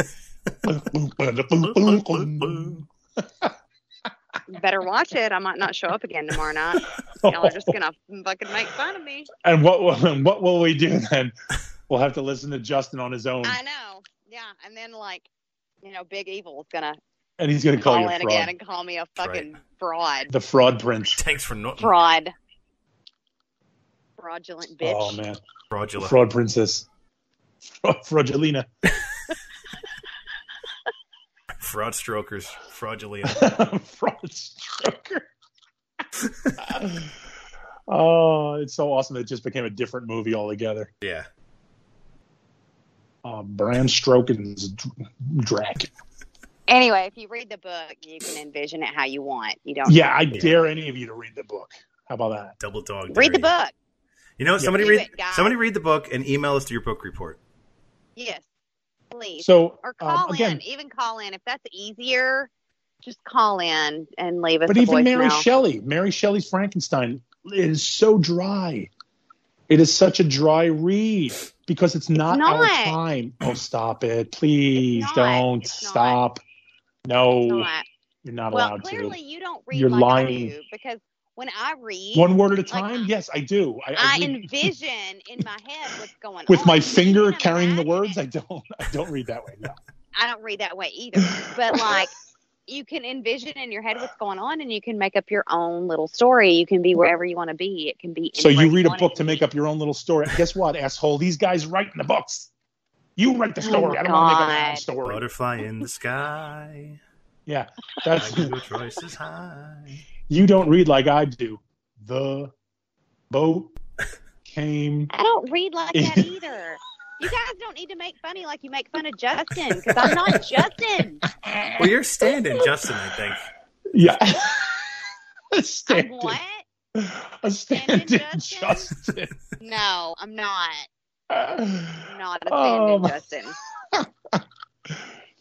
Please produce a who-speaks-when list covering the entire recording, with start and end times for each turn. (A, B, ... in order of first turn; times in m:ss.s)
0:00.6-0:03.5 A
0:01.8-0:02.7 B
0:04.5-0:09.3 C
0:07.0-0:07.8 A
0:09.4-0:11.3 A
0:11.9-0:13.6 A
0:13.4-0:15.2 C
0:15.8-0:17.0 C
0:17.4-0:18.5 A
0:17.8-0:20.3 C
0:19.2-0:19.5 B
0:20.3-0:21.2 A
0:21.2-0:21.9 B
0:21.8-0:22.3 C
0:24.2-0:25.2 C
0:24.8-0:25.4 A
0:25.7-0:26.2 B
0:26.0-0:26.8 A
0:27.8-0:28.7 A
0:31.6-0:33.5 B
0:33.2-0:35.3 A
0:36.6-0:37.2 A
0:37.9-0:40.9 A
0:41.0-0:41.3 B
0:43.2-0:45.9 A
0:46.7-0:50.1 C
0:49.8-0:52.5 A
0:52.6-0:53.5 B
0:53.1-0:53.7 C
0:54.4-0:57.4 B
0:54.6-0:54.8 A
0:54.8-0:55.6 C
0:58.2-0:58.4 C
0:59.1-1:02.5 C
0:59.4-1:00.6 A
1:03.0-1:05.4 C
1:04.7-1:08.9 A
1:09.7-1:16.4 A
1:12.2-1:13.0 C
1:14.8-1:16.2 C
1:17.0-1:17.7 A
1:17.4-1:17.8 C
1:18.2-1:19.1 A
1:18.5-1:23.1 C
1:19.7-1:20.5 A
1:22.1-1:24.7 A
1:24.0-1:28.2 C
1:26.5-1:29.8 A
1:30.1-1:32.1 C
1:31.2-1:32.0 A
1:32.7-1:39.4 C
1:38.4-1:42.5 A
1:43.2-1:45.2 A
1:43.6-1:44.8 C
1:45.0-1:47.0 B
1:47.5-1:48.5 A
1:48.1-1:50.0 B
1:50.3-1:52.5 A
1:53.3-1:53.7 A
1:54.4-1:55.1 A
1:55.1-2:01.2 C
1:55.9-1:56.3 A
2:01.2-2:01.9 A
2:01.8-2:03.5 B
2:02.4-2:02.9 A
2:03.9-2:06.4 A
2:05.9-2:06.6 C
2:06.9-2:09.3 A
2:07.7-2:08.9 C
2:09.6-2:10.9 C
2:11.3-2:13.1 A
2:12.0-2:13.5 C
2:13.9-2:15.0 A